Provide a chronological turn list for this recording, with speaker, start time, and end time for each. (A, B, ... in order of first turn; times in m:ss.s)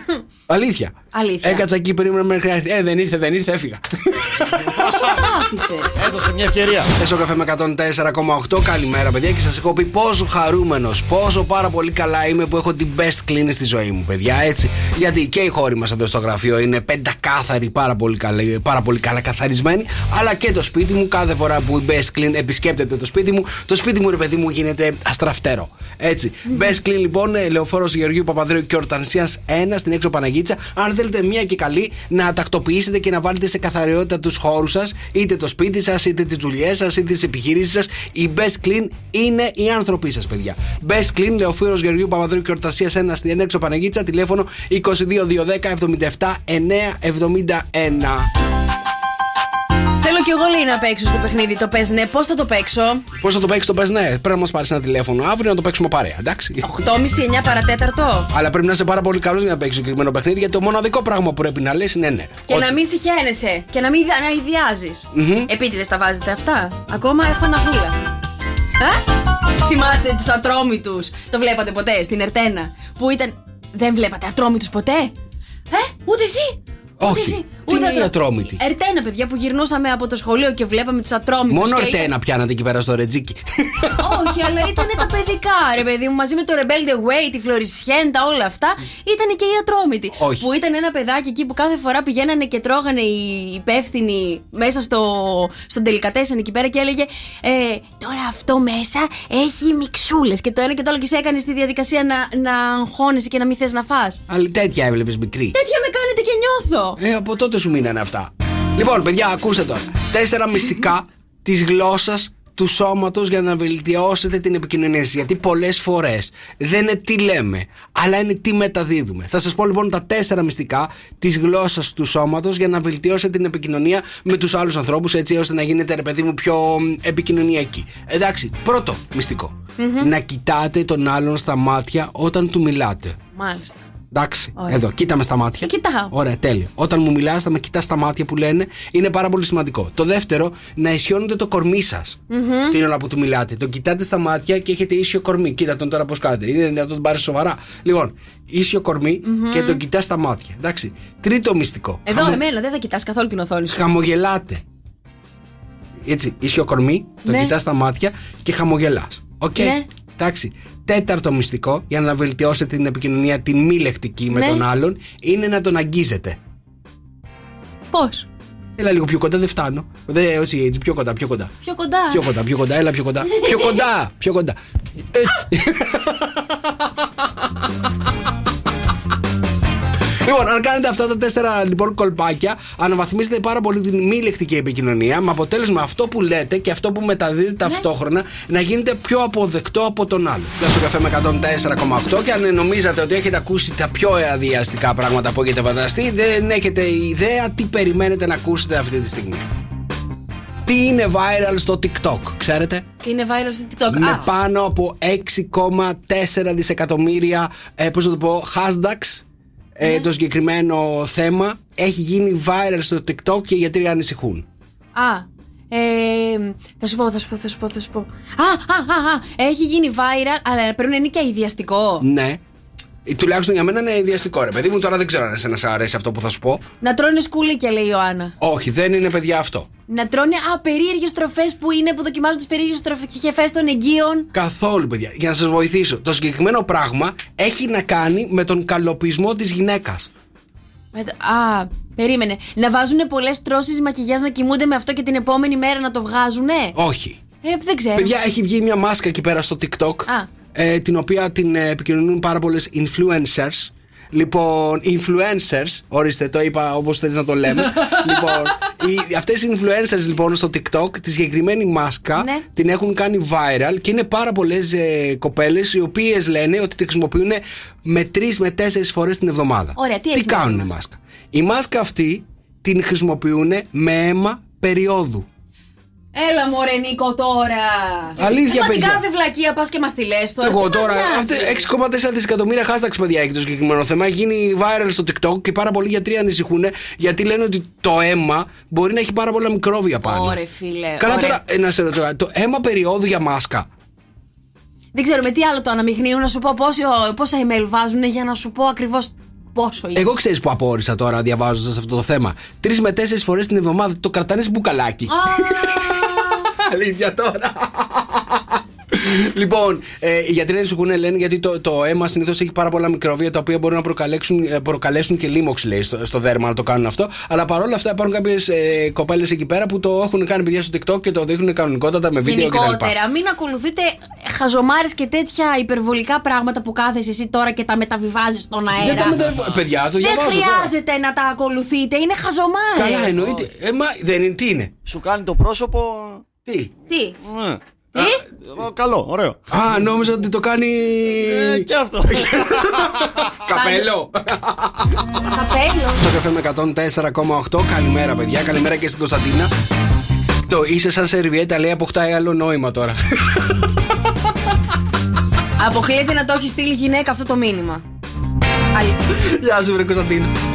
0:00.5-0:05.1 A
0:01.1-0:01.7 B
0:04.8-0:06.0 B
0:04.8-0:05.2 C
0:06.0-0:06.9 C
0:07.0-0:48.3 A
0:50.0-0:53.0 B
0:53.2-0:56.6 A
0:56.6-0:58.3 B
0:58.3-1:02.8 A
1:02.5-1:08.0 B
1:05.1-1:05.5 A
1:08.8-1:09.0 B
1:09.6-1:15.1 B
1:15.7-1:22.1 B
1:17.0-1:18.6 A
1:21.5-1:24.3 A
1:24.0-1:44.2 B
1:30.2-1:30.5 A
1:44.3-1:45.6 A
1:45.5-1:47.0 B
1:47.0-2:13.2 A
2:09.8-2:10.1 B
2:13.4-2:13.8 B
2:14.1-2:32.4 A
2:14.6-2:14.8 B
2:15.6-2:16.1 B
2:22.3-2:22.8 B
2:29.2-2:29.8 B
2:32.1-2:33.8 B
2:33.7-2:34.6 A
2:36.0-2:46.4 A
2:37.2-2:37.5 B
2:39.6-2:39.9 B
2:44.3-2:44.6 B
2:47.9-2:48.3 B
2:48.8-2:51.5 A
2:51.6-2:52.2 B
2:52.1-2:54.6 A
2:55.1-2:56.5 A
3:00.2-3:19.4 A
3:20.6-3:22.9 A
3:23.0-3:24.3 B
3:23.9-3:29.2 A
3:29.8-3:34.5 A
3:35.0-3:42.0 B
3:42.0-3:42.4 A
3:43.0-3:46.6 A
3:46.8-3:48.3 B
3:48.4-3:49.7 A
3:49.9-3:54.3 B
3:54.3-4:00.1 A
4:00.9-4:06.8 B
4:06.8-4:07.2 A
4:07.4-4:08.1 B
4:08.0-4:35.3 A
4:22.2-4:22.4 B
4:29.8-4:30.7 B
4:36.1-4:41.7 B
4:38.2-4:39.0 A
4:40.4-4:50.4 A
4:50.0-4:51.4 B
4:51.0-4:53.7 A
4:55.0-5:00.0 B
4:59.9-5:23.0 A
5:05.1-5:06.5 B
5:22.2-5:29.2 B
5:28.8-5:30.7 A
5:28.9-5:29.6 C
5:30.0-5:33.2 B
5:32.8-5:34.7 A
5:33.2-5:33.5 C
5:34.8-5:36.2 C
5:36.5-5:36.7 A
5:36.9-5:37.2 B
5:37.2-5:39.4 C
5:37.9-5:38.2 B
5:39.5-5:45.2 A
5:41.2-5:43.0 C
5:43.5-5:43.9 B
5:45.3-5:46.0 B
5:46.0-5:49.5 A
5:50.5-5:53.7 A
5:55.6-5:57.8 B
5:58.7-5:59.0 B
5:59.1-6:00.3 A